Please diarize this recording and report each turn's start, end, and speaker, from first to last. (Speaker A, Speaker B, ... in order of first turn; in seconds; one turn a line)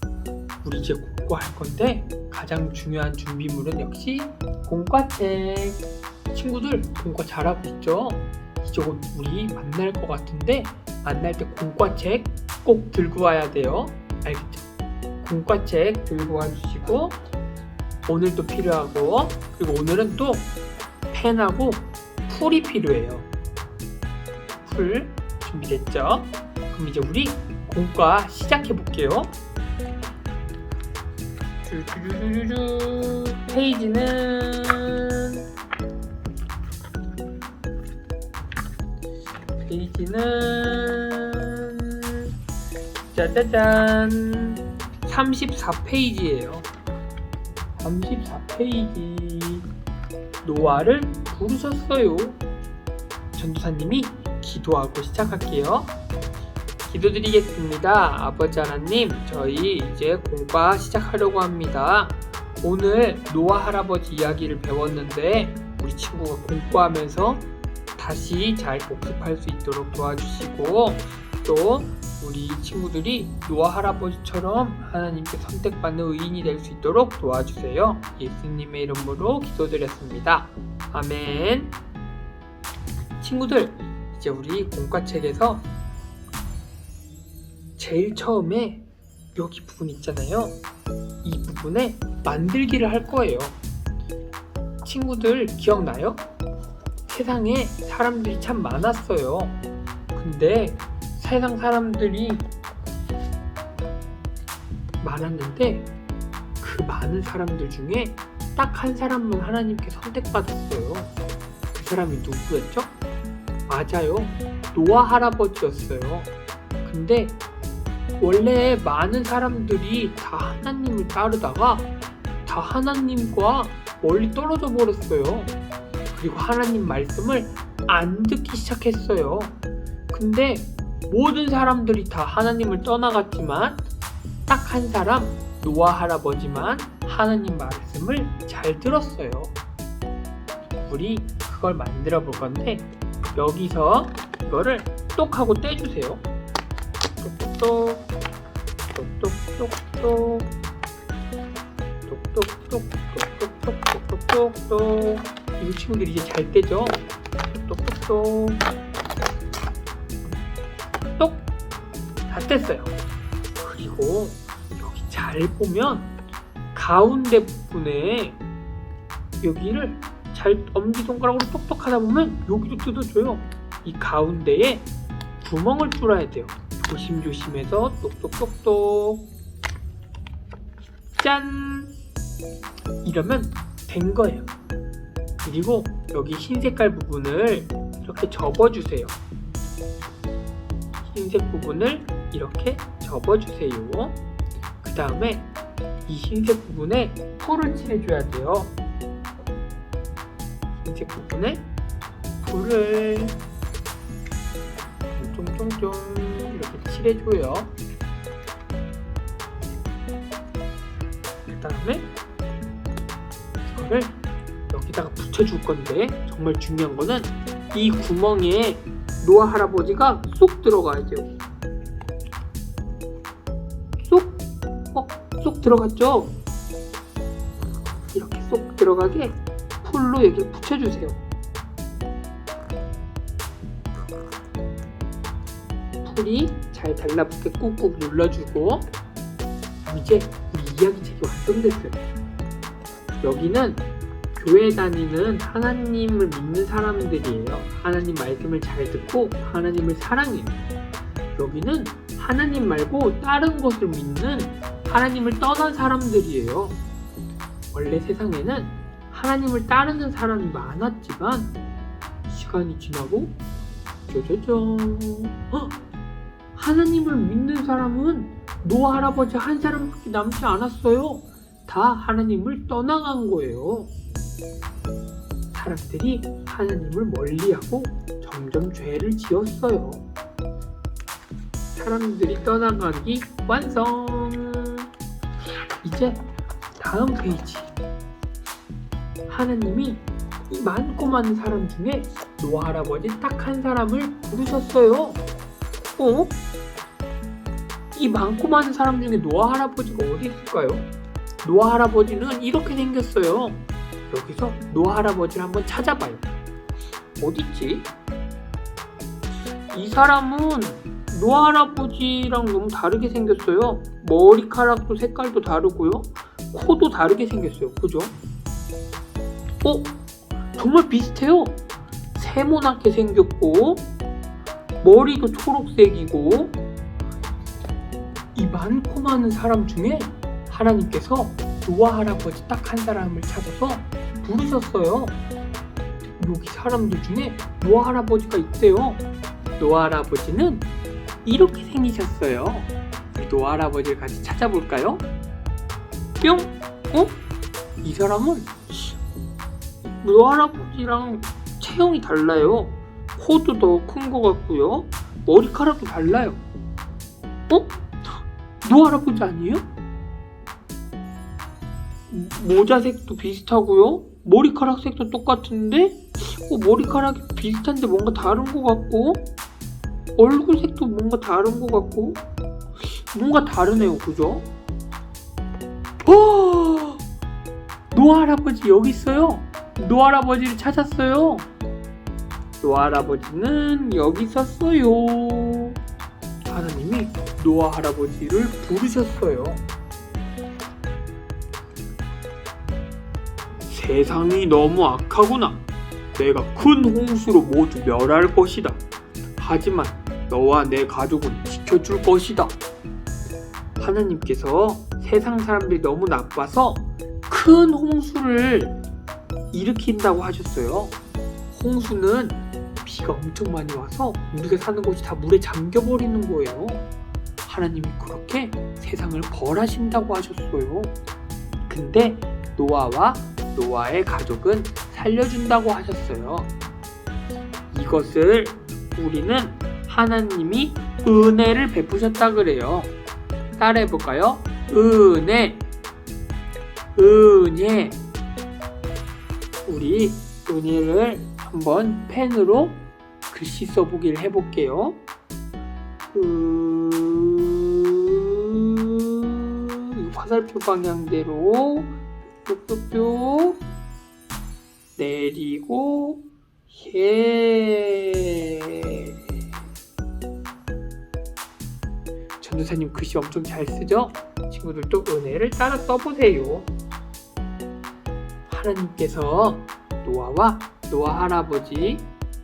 Speaker A: 0.6-14.7
Speaker A: 15.2-17.2
Speaker A: 18.1-20.5
Speaker A: 21.1-23.3
Speaker A: 24.6-29.3
Speaker A: 31.6-35.4
Speaker A: 39.6-42.3
Speaker A: 43.1-46.7
Speaker A: 47.8-49.7
Speaker A: 50.4-52.4
Speaker A: 53.3-55.9
Speaker A: 56.9-81.8
Speaker A: 83.2-85.7
Speaker A: 87.8-88.8
Speaker A: 89.3-90.6
Speaker A: 91.2-93.6
Speaker A: 94.8-96.2
Speaker A: 97.1-99.6
Speaker A: 100.1-102.5
Speaker A: 105.0-105.9
Speaker A: 106.6-111.1
Speaker A: 111.7-112.9
Speaker A: 113.7-116.3
Speaker A: 116.8-117.4
Speaker A: 118.2-121.9
Speaker A: 122.5-125.5
Speaker A: 126.1-129.6
Speaker A: 130.1-133.8
Speaker A: 134.5-139.5
Speaker A: 140.8-146.2
Speaker A: 147.2-148.1
Speaker A: 148.9-150.5
Speaker A: 152.1-157.0
Speaker A: 157.5-158.6
Speaker A: 162.3-162.9
Speaker A: 163.6-166.1
Speaker A: 166.7-168.4
Speaker A: 169.4-174.9
Speaker A: 175.4-179.3
Speaker A: 181.2-181.9
Speaker A: 183.0-184.5
Speaker A: 185.4-189.2
Speaker A: 191.0-194.2
Speaker A: 194.8-195.5
Speaker A: 196.1-198.8
Speaker A: 200.8-201.7
Speaker A: 202.4-203.4
Speaker A: 205.2-207.7
Speaker A: 211.5-212.1
Speaker A: 213.7-214.2
Speaker A: 214.7-221.3
Speaker A: 224.0-226.4
Speaker A: 228.1-231.2
Speaker A: 236.0-238.9
Speaker A: 239.8-242.0
Speaker A: 243.2-250.6
Speaker A: 251.3-256.8
Speaker A: 257.7-261.6
Speaker A: 262.3-263.4
Speaker A: 264.1-265.8
Speaker A: 266.6-273.9
Speaker A: 275.5-280.0
Speaker A: 281.7-284.9
Speaker A: 285.8-286.2
Speaker A: 286.8-287.7
Speaker A: 289.3-295.3
Speaker A: 296.0-296.4
Speaker A: 297.9-300.9
Speaker A: 301.4-306.3
Speaker A: 307.2-307.9
Speaker A: 309.7-318.1
Speaker A: 319.6-319.9
Speaker A: 320.6-321.6
Speaker A: 322.1-323.9
Speaker A: 324.8-326.6
Speaker A: 328.4-335.2
Speaker A: 336.2-339.0
Speaker A: 339.6-340.7
Speaker A: 341.2-345.1
Speaker A: 346.2-347.2
Speaker A: 347.8-349.0
Speaker A: 349.8-356.4
Speaker A: 357.5-357.7
Speaker A: 358.6-359.6
Speaker A: 362.1-369.2
Speaker A: 370.2-372.2
Speaker A: 373.0-374.5
Speaker A: 376.1-377.0
Speaker A: 377.9-381.5
Speaker A: 382.6-385.8
Speaker A: 386.5-389.6
Speaker A: 393.6-395.6
Speaker A: 396.1-398.8
Speaker A: 399.4-402.6
Speaker A: 403.8-408.8
Speaker A: 409.5-411.0
Speaker A: 411.5-416.8
Speaker A: 417.4-420.9
Speaker A: 421.7-426.5
Speaker A: 427.7-432.9
Speaker A: 433.6-435.6
Speaker A: 437.0-438.0
Speaker A: 439.6-445.0
Speaker A: 446.1-451.9
Speaker A: 452.4-453.6
Speaker A: 455.0-459.1
Speaker A: 462.4-466.7
Speaker A: 468.5-472.1